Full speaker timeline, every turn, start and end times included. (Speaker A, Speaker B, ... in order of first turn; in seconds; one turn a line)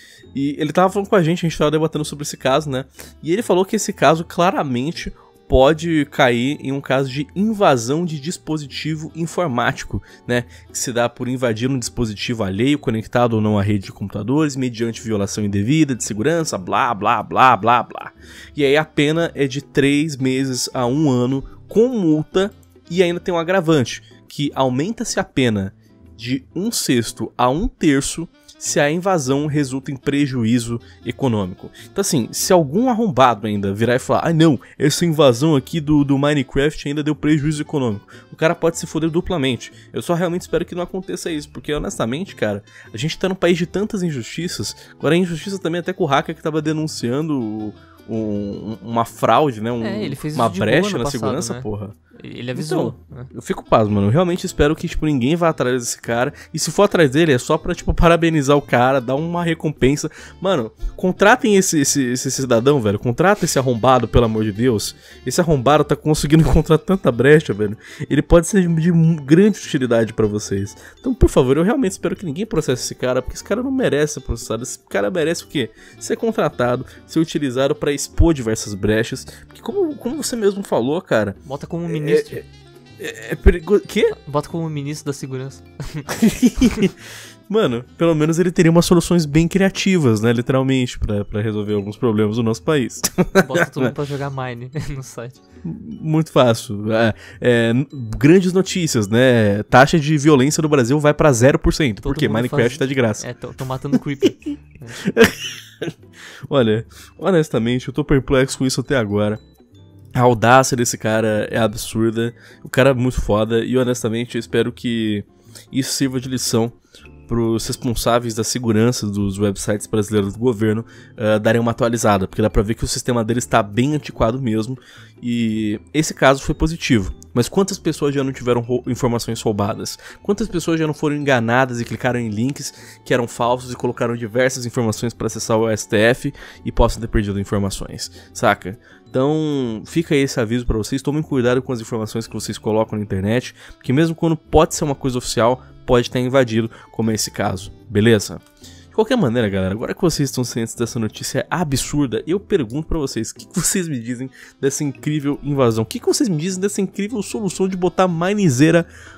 Speaker A: 0.3-52.0
Speaker B: 49.8-53.3
Speaker A: 52.5-82.4
Speaker B: 81.4-82.4
Speaker A: 83.0-84.2
Speaker B: 84.1-86.9
Speaker A: 86.1-86.9
Speaker A: 87.5-93.9
Speaker B: 93.4-95.4
Speaker A: 95.6-103.2
Speaker B: 102.0-105.0
Speaker A: 105.0-105.9
Speaker A: 106.5-109.4
Speaker A: 110.1-116.8
Speaker A: 117.3-158.9